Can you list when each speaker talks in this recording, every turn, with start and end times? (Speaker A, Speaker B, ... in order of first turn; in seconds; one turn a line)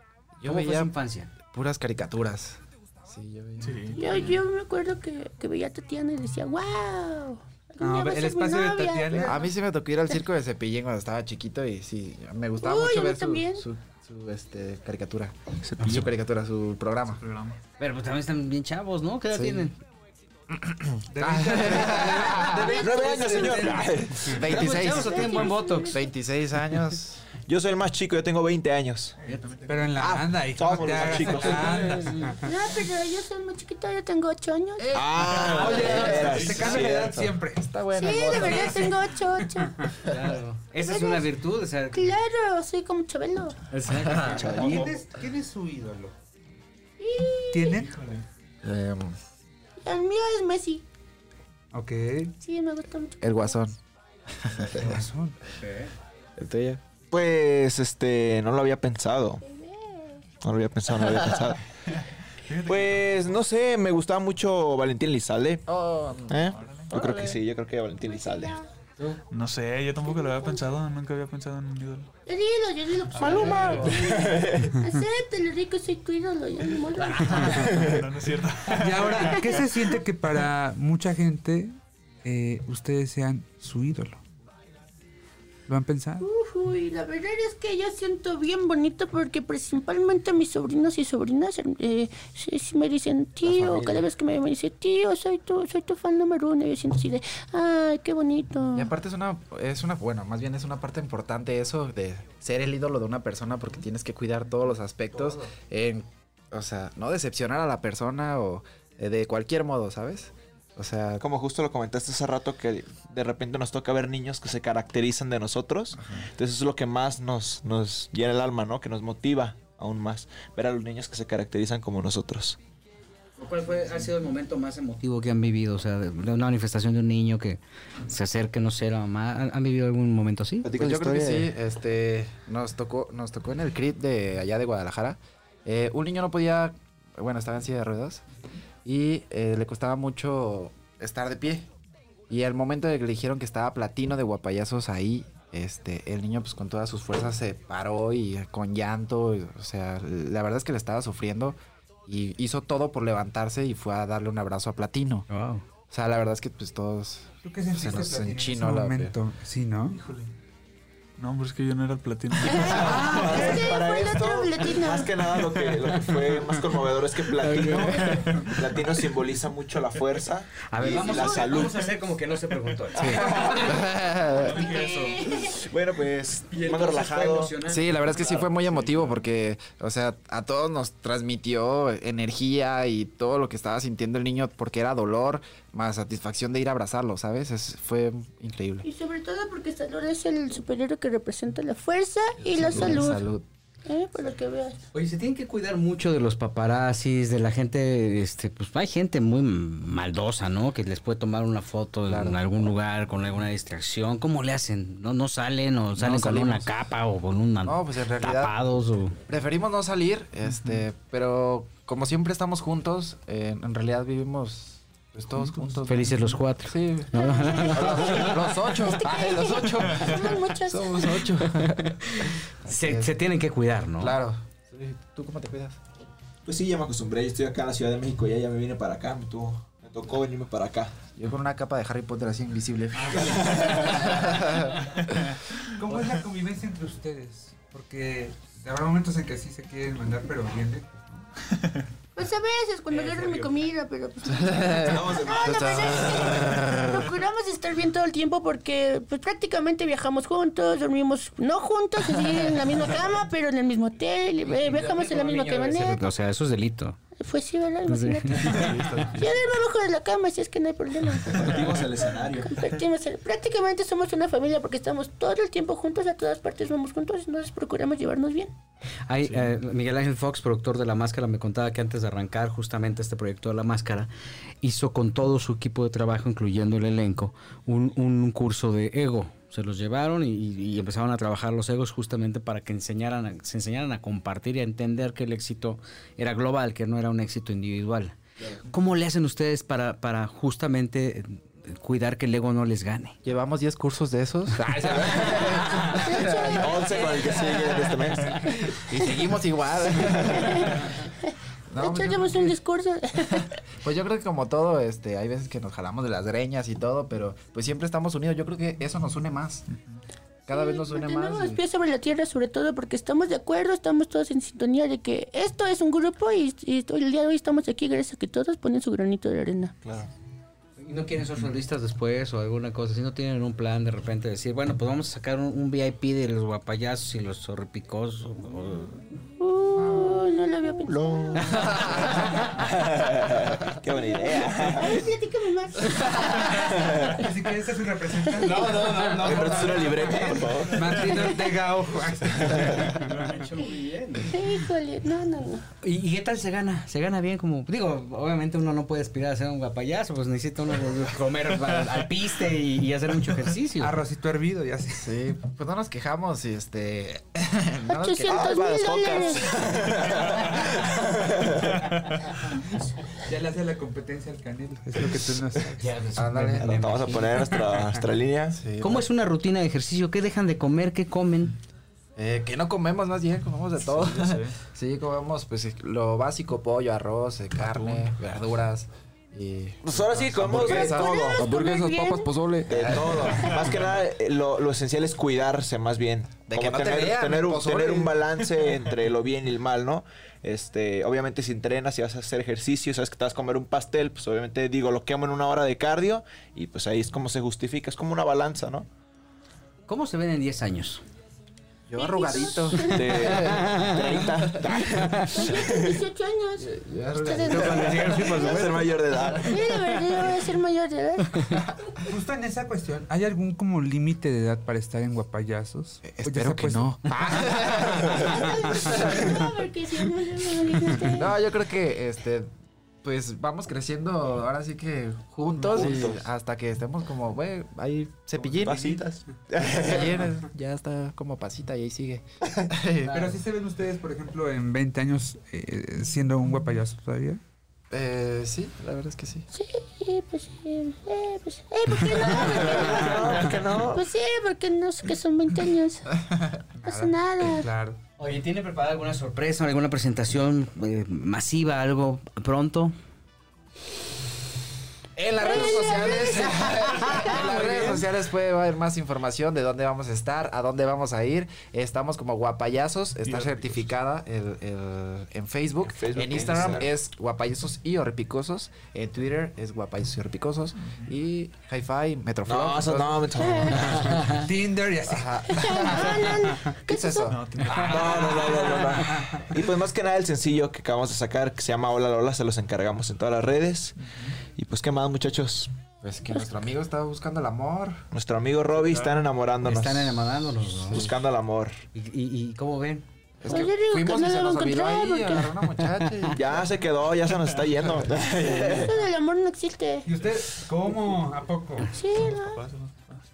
Speaker A: 0.4-0.9
Speaker B: 0.4-1.3
Speaker A: 1.4-4.3
Speaker C: 3.6-4.2
Speaker D: 4.0-9.4
Speaker E: 7.8-9.5
Speaker A: 9.2-17.2
Speaker D: 12.6-13.6
Speaker F: 15.6-16.1
Speaker C: 17.2-17.6
Speaker B: 17.8-19.8
Speaker A: 19.3-19.7
Speaker A: 20.5-22.7
Speaker E: 21.1-24.3
Speaker D: 22.3-23.8
Speaker F: 22.7-24.4
Speaker A: 24.2-27.2
Speaker B: 24.4-26.0
Speaker D: 24.6-26.1
Speaker F: 27.5-29.1
Speaker C: 29.2-30.1
Speaker E: 29.7-32.4
Speaker A: 30.0-30.3
Speaker F: 30.5-32.1
Speaker B: 31.3-32.3
Speaker D: 32.4-34.9
Speaker A: 34.8-36.4
Speaker F: 34.9-37.4
Speaker E: 35.2-37.6
Speaker A: 37.6-39.0
Speaker D: 37.9-39.9
Speaker B: 40.0-42.2
Speaker D: 40.8-41.3
Speaker D: 41.9-43.6
Speaker B: 43.7-44.8
Speaker A: 43.9-44.4
Speaker F: 44.1-45.0
Speaker E: 44.4-46.1
Speaker D: 47.0-47.8
Speaker E: 47.5-47.9
Speaker C: 47.9-48.2
Speaker A: 48.6-49.2
Speaker D: 49.8-50.8
Speaker E: 51.7-52.3
Speaker D: 52.4-53.5
Speaker A: 53.2-53.8
Speaker A: 54.3-55.1
Speaker E: 54.7-55.4
Speaker B: 55.4-55.9
Speaker A: 56.4-56.8
Speaker F: 57.1-59.4
Speaker D: 59.5-60.2
Speaker F: 60.4-61.6
Speaker C: 61.9-63.4
Speaker F: 62.7-65.6
Speaker A: 65.7-66.4
Speaker F: 66.3-68.6
Speaker C: 66.4-66.9
Speaker A: 66.9-67.3
Speaker D: 68.0-68.6
Speaker C: 69.3-72.1
Speaker D: 70.0-70.7
Speaker D: 72.3-77.7
Speaker C: 73.1-74.0
Speaker F: 73.2-74.8
Speaker A: 73.6-73.9
Speaker B: 77.0-77.6
Speaker C: 77.2-79.6
Speaker F: 77.7-78.0
Speaker E: 78.7-84.2
Speaker E: 85.7-86.2
Speaker D: 86.2-98.9
Speaker A: 93.5-94.0
Speaker A: 98.7-111.2
Speaker F: 111.2-122.6
Speaker A: 116.0-116.3
Speaker B: 123.4-130.7
Speaker F: 130.6-131.5
Speaker A: 130.7-138.2
Speaker A: 138.8-141.7
Speaker A: 142.3-155.3
Speaker B: 155.3-155.6
Speaker A: 155.9-159.2
Speaker E: 157.4-160.0
Speaker C: 159.9-160.3
Speaker C: 161.2-163.3
Speaker D: 162.4-165.2
Speaker F: 162.5-171.9
Speaker B: 162.8-163.4
Speaker B: 167.4-168.5
Speaker B: 170.7-173.7
Speaker D: 170.9-171.4
Speaker A: 172.9-174.7
Speaker F: 172.9-177.6
Speaker D: 174.4-175.6
Speaker C: 174.7-175.0
Speaker B: 176.5-177.9
Speaker A: 177.7-188.8
Speaker D: 188.8-193.2
Speaker A: 192.4-193.4
Speaker D: 193.8-194.8
Speaker B: 194.9-209.2
Speaker A: 202.1-202.4
Speaker A: 206.0-206.7
Speaker A: 207.6-208.6
Speaker A: 209.3-223.2
Speaker B: 215.9-218.5
Speaker D: 217.1-221.2
Speaker B: 221.5-224.2
Speaker A: 224.0-225.8
Speaker F: 226.4-231.0
Speaker A: 231.2-234.8
Speaker F: 233.1-234.2
Speaker E: 233.4-233.7
Speaker E: 235.8-241.3
Speaker D: 242.2-256.0
Speaker A: 244.3-247.0
Speaker F: 244.8-246.6
Speaker B: 254.5-257.0
Speaker D: 257.2-261.8
Speaker B: 257.9-258.9
Speaker C: 258.6-259.2
Speaker A: 258.6-258.9
Speaker F: 261.3-262.8
Speaker D: 262.4-268.5
Speaker B: 269.1-274.1
Speaker C: 269.2-269.5
Speaker B: 274.6-288.2
Speaker B: 288.7-293.2
Speaker A: 293.2-297.1
Speaker B: 294.6-295.9
Speaker F: 294.9-295.4
Speaker D: 296.0-296.9
Speaker F: 296.6-298.8
Speaker A: 298.1-300.9
Speaker F: 300.0-300.6
Speaker D: 300.1-303.5
Speaker A: 301.7-302.5
Speaker A: 303.1-309.6
Speaker A: 310.5-311.6
Speaker D: 310.5-319.7
Speaker F: 319.8-320.1
Speaker B: 320.8-329.0
Speaker D: 329.4-332.0
Speaker F: 330.9-335.1
Speaker B: 331.4-332.5
Speaker D: 333.9-337.2
Speaker F: 336.1-337.2
Speaker E: 337.1-342.9
Speaker B: 338.4-340.6
Speaker F: 339.2-341.3
Speaker F: 342.3-343.1
Speaker B: 342.6-344.4
Speaker D: 344.2-345.6
Speaker B: 345.8-353.9
Speaker E: 353.8-355.1
Speaker A: 355.0-358.5
Speaker D: 357.9-359.6
Speaker F: 358.2-361.8
Speaker E: 363.2-365.9
Speaker B: 365.8-367.5
Speaker A: 366.1-366.8
Speaker F: 366.6-368.6
Speaker A: 368.5-369.1
Speaker B: 368.8-371.5
Speaker A: 372.1-383.7
Speaker C: 373.9-374.5
Speaker C: 377.6-378.0
Speaker F: 379.8-381.5
Speaker D: 380.6-382.3
Speaker F: 382.7-398.9
Speaker A: 386.5-388.4
Speaker B: 399.9-401.0
Speaker A: 401.9-404.7
Speaker D: 401.9-403.5
Speaker F: 402.8-406.0
Speaker B: 403.5-403.9
Speaker B: 404.6-405.4
Speaker D: 405.3-408.6
Speaker A: 406.6-408.4
Speaker B: 407.5-408.9
Speaker F: 407.6-409.6
Speaker D: 409.4-411.7
Speaker E: 412.1-417.3
Speaker A: 416.0-419.5
Speaker F: 417.9-418.3
Speaker D: 418.0-421.3
Speaker A: 421.1-422.5
Speaker A: 423.0-429.0
Speaker F: 425.7-426.2
Speaker E: 428.4-429.0
Speaker F: 428.6-430.3
Speaker A: 429.6-433.2
Speaker B: 433.0-433.4
Speaker E: 433.1-437.4
Speaker A: 437.9-439.4
Speaker D: 439.5-446.1
Speaker F: 442.2-444.1
Speaker E: 446.8-448.0
Speaker D: 446.8-447.7
Speaker B: 448.2-452.9
Speaker A: 455.1-473.6
Speaker D: 455.4-457.6
Speaker B: 456.8-457.7
Speaker E: 457.2-458.0
Speaker C: 463.2-463.8
Speaker F: 465.9-466.9
Speaker F: 472.4-474.2
Speaker D: 473.4-474.3
Speaker E: 474.2-476.1
Speaker A: 475.1-477.7
Speaker D: 475.5-477.3
Speaker C: 477.3-478.1
Speaker E: 477.7-479.4
Speaker F: 477.7-484.0
Speaker B: 477.8-478.9
Speaker C: 484.0-484.3
Speaker F: 484.5-485.7
Speaker A: 486.0-488.0
Speaker F: 488.1-490.2
Speaker C: 488.8-489.2
Speaker B: 489.6-491.1
Speaker F: 490.9-491.7
Speaker B: 491.9-493.0
Speaker A: 493.4-496.7
Speaker D: 493.5-495.5
Speaker F: 496.3-499.0
Speaker D: 498.4-500.1
Speaker E: 500.0-501.9
Speaker D: 501.9-502.6
Speaker C: 502.1-503.2